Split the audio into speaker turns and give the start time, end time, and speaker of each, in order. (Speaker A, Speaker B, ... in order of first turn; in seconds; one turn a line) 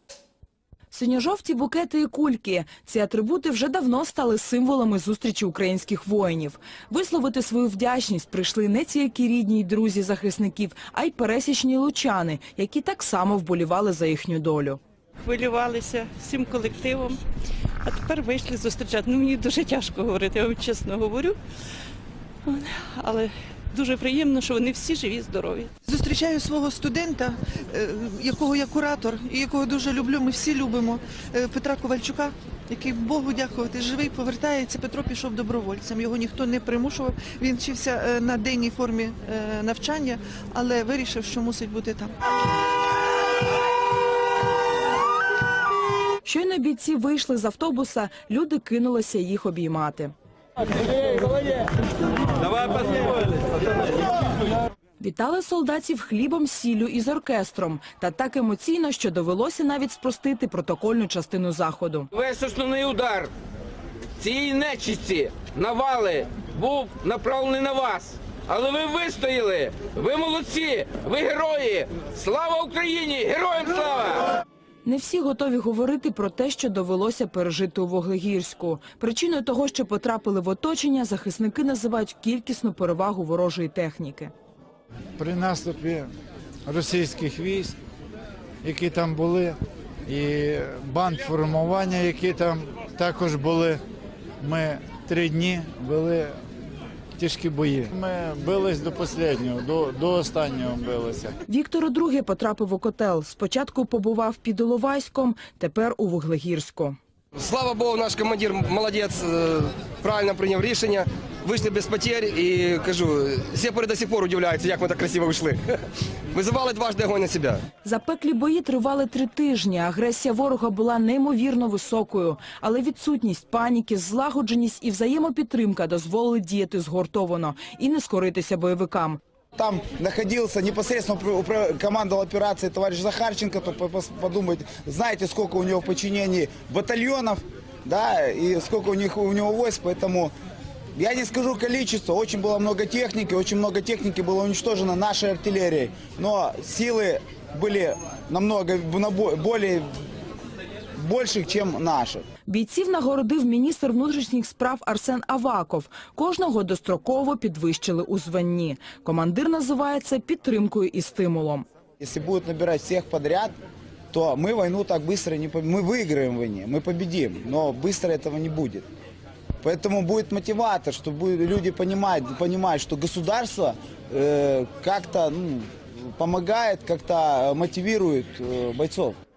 Speaker A: 0.9-14.8
Speaker B: 15.3-17.2
Speaker B: 17.9-21.4
Speaker B: 22.5-25.7
Speaker C: 25.9-42.1
Speaker A: 46.2-50.1
Speaker A: 55.0-62.1
Speaker D: 62.1-63.2
Speaker D: 64.2-74.1
Speaker A: 74.8-84.3
Speaker E: 85.2-86.1
Speaker E: 86.7-87.8
Speaker E: 88.6-93.8
Speaker E: 94.4-96.4
Speaker E: 97.2-101.3
Speaker A: 101.5-107.0
Speaker F: 107.4-115.8
Speaker F: 116.3-117.6
Speaker A: 117.8-129.2
Speaker G: 129.6-140.3
Speaker G: 140.9-149.9
Speaker G: 151.0-152.2
Speaker A: 152.5-161.7
Speaker G: 162.0-163.5
Speaker G: 164.1-168.8
Speaker G: 169.6-179.2